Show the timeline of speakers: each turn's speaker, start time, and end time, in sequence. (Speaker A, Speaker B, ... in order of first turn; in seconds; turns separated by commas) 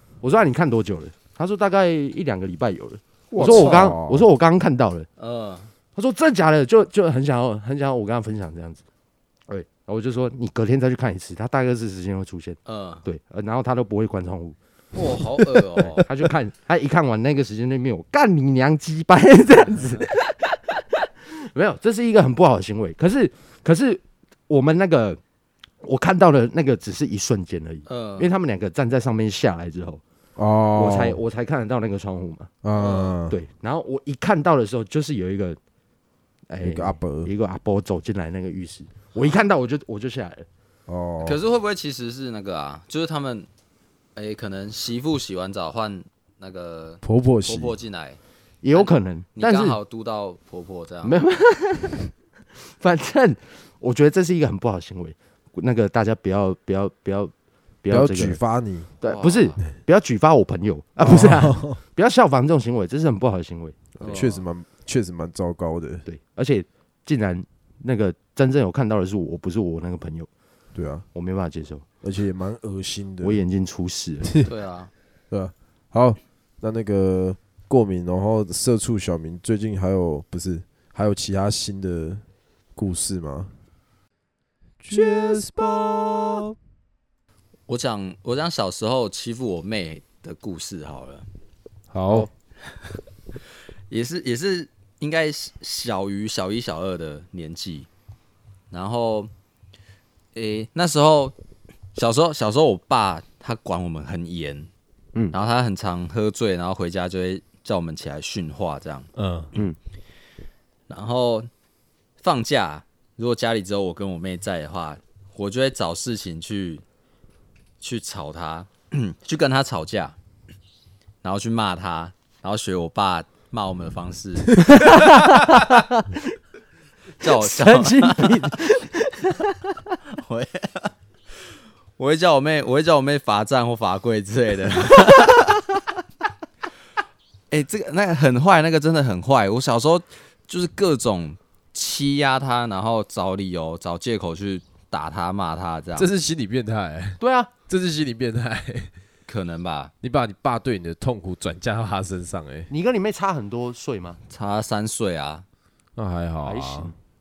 Speaker A: 0.2-5.1, Speaker B: 3.3-4.2, Speaker C: 3.4-3.8, Speaker C: 5.2-5.7, Speaker A: 6.0-8.8, Speaker A: 9.5-14.6, Speaker C: 12.7-13.0, Speaker C: 14.9-16.1, Speaker A: 16.0-25.2, Speaker A: 25.8-30.0, Speaker C: 27.9-28.3, Speaker B: 30.4-31.2, Speaker A: 30.7-32.6, Speaker B: 32.6-33.4, Speaker C: 32.7-33.2, Speaker A: 33.3-35.6, Speaker A: 36.5-40.5, Speaker B: 36.6-37.3, Speaker B: 40.9-41.4, Speaker C: 41.2-43.5, Speaker C: 44.1-48.2, Speaker B: 47.0-47.7, Speaker A: 48.6-49.8, Speaker C: 48.7-51.2, Speaker A: 51.0-52.1, Speaker A: 52.6-57.3, Speaker A: 57.8-58.4, Speaker B: 57.9-58.9, Speaker A: 59.0-63.9, Speaker C: 59.0-59.6, Speaker B: 61.0-61.8, Speaker B: 64.0-66.0, Speaker C: 64.0-64.4, Speaker A: 66.0-70.3, Speaker B: 70.7-71.0, Speaker A: 71.1-71.8, Speaker B: 72.0-73.4, Speaker A: 73.2-74.3, Speaker B: 74.2-74.5, Speaker C: 74.4-74.9, Speaker B: 75.3-82.2, Speaker B: 82.8-83.5, Speaker B: 84.8-86.5, Speaker C: 87.7-91.2, Speaker B: 91.9-92.3, Speaker C: 93.9-97.9, Speaker C: 98.7-99.3, Speaker C: 100.3-101.3, Speaker C: 101.9-104.7, Speaker C: 105.3-109.1, Speaker B: 109.2-109.5, Speaker C: 110.9-111.5, Speaker C: 112.2-116.8, Speaker C: 117.8-120.2, Speaker C: 121.2-125.1, Speaker A: 124.7-126.2, Speaker C: 127.2-128.6, Speaker A: 127.2-129.9, Speaker C: 130.1-130.9, Speaker C: 132.0-135.8, Speaker C: 137.5-146.1, Speaker B: 146.0-148.9, Speaker A: 147.2-147.5, Speaker C: 149.3-149.9, Speaker B: 150.0-152.7, Speaker A: 152.7-154.2, Speaker C: 154.3-155.4, Speaker B: 155.9-156.9, Speaker A: 156.4-156.9